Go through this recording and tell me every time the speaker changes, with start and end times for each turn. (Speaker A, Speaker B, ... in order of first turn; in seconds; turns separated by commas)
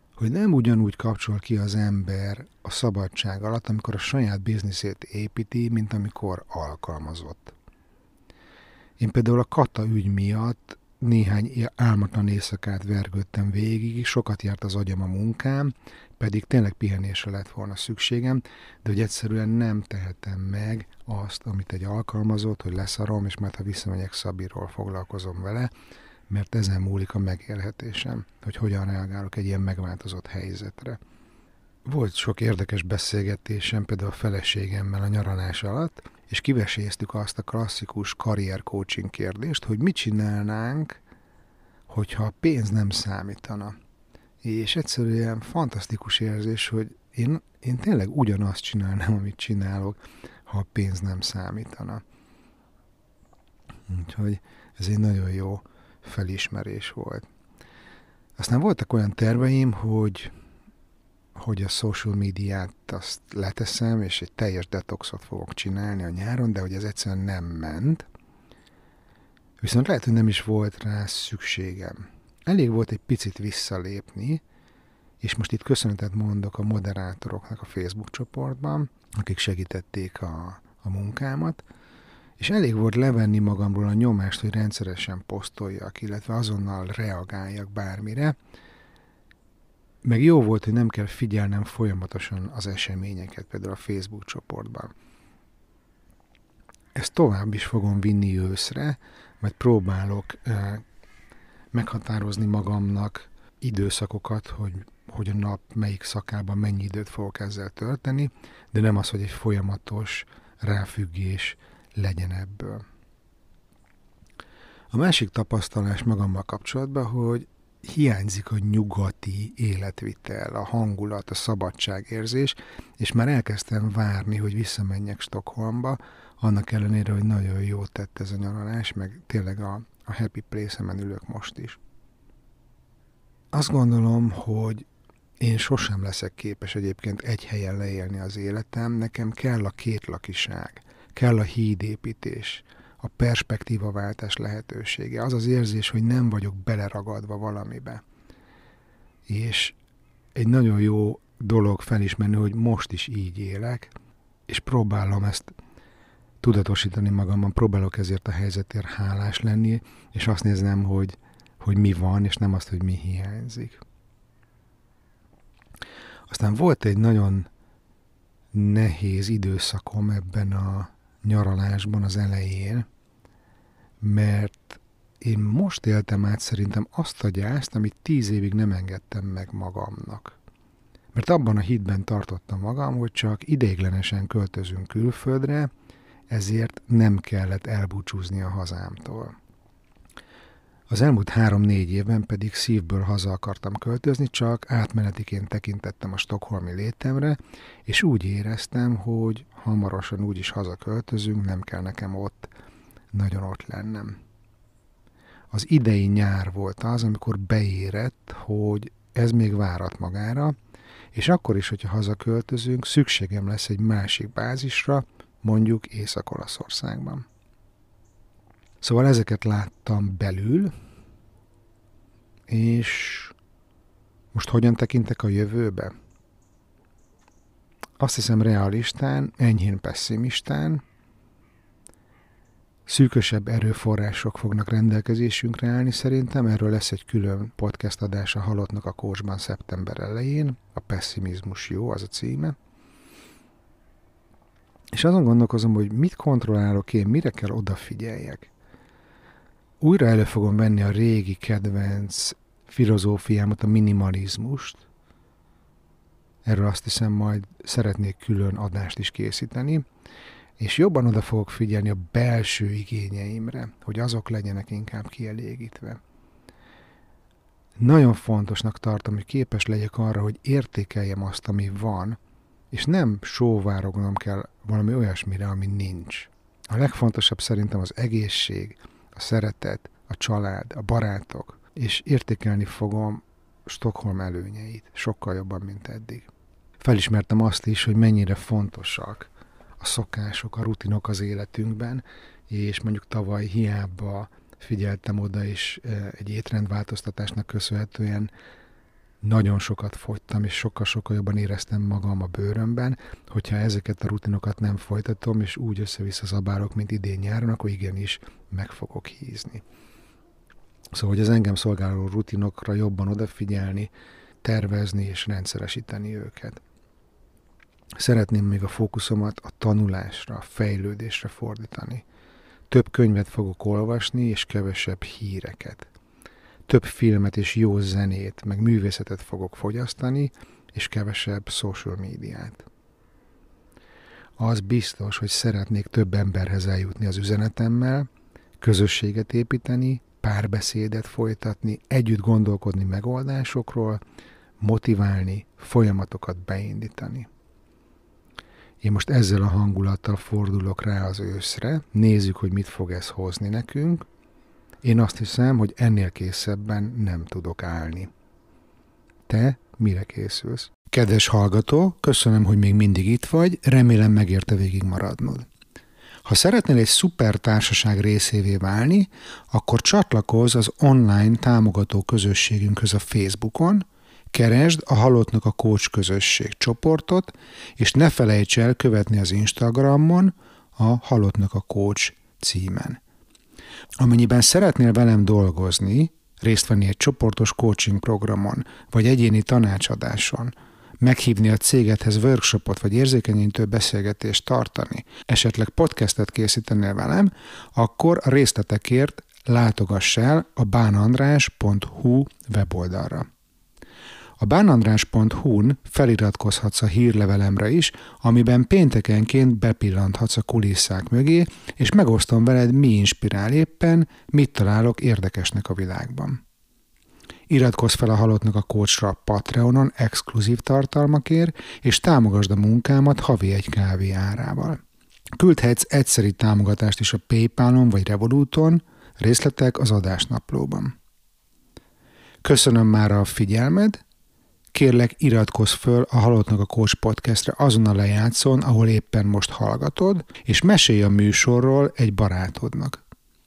Speaker A: 0.2-7.5, Speaker A: 9.0-25.7, Speaker A: 26.3-31.0, Speaker A: 31.8-41.0, Speaker A: 41.9-43.8, Speaker A: 44.4-52.0, Speaker A: 53.9-57.3, Speaker A: 58.4-60.3, Speaker A: 61.3-68.1, Speaker A: 69.6-74.4, Speaker A: 75.2-81.6, Speaker A: 82.4-88.3, Speaker A: 90.0-94.9, Speaker A: 96.9-100.8, Speaker A: 101.7-112.8, Speaker A: 114.9-131.8, Speaker A: 133.5-134.8, Speaker A: 135.4-148.0, Speaker A: 149.3-149.8, Speaker A: 150.3-153.9, Speaker A: 154.5-155.5, Speaker A: 156.4-163.8, Speaker A: 166.3-167.5, Speaker A: 168.5-172.9, Speaker A: 174.0-180.4, Speaker A: 181.1-185.7, Speaker A: 186.3-189.3, Speaker A: 190.9-202.5, Speaker A: 203.1-204.2, Speaker A: 205.5-210.5, Speaker A: 211.1-217.2, Speaker A: 218.8-220.7, Speaker A: 222.5-223.3, Speaker A: 224.3-225.9, Speaker A: 228.0-230.8, Speaker A: 232.8-242.6, Speaker A: 244.9-248.5, Speaker A: 249.8-254.8, Speaker A: 256.4-259.8, Speaker A: 260.6-266.0, Speaker A: 267.8-272.2, Speaker A: 272.7-286.3, Speaker A: 286.8-298.3, Speaker A: 299.2-309.6, Speaker A: 310.9-313.9, Speaker A: 314.4-316.6, Speaker A: 318.0-322.0, Speaker A: 322.7-325.9, Speaker A: 326.7-332.6, Speaker A: 334.4-338.1, Speaker A: 338.6-344.0, Speaker A: 344.6-347.3, Speaker A: 348.8-354.1, Speaker A: 354.8-358.1, Speaker A: 359.3-365.5, Speaker A: 366.2-383.0, Speaker A: 384.0-403.3, Speaker A: 404.4-416.4, Speaker A: 417.5-424.8, Speaker A: 425.3-430.9, Speaker A: 432.4-434.0, Speaker A: 434.7-443.0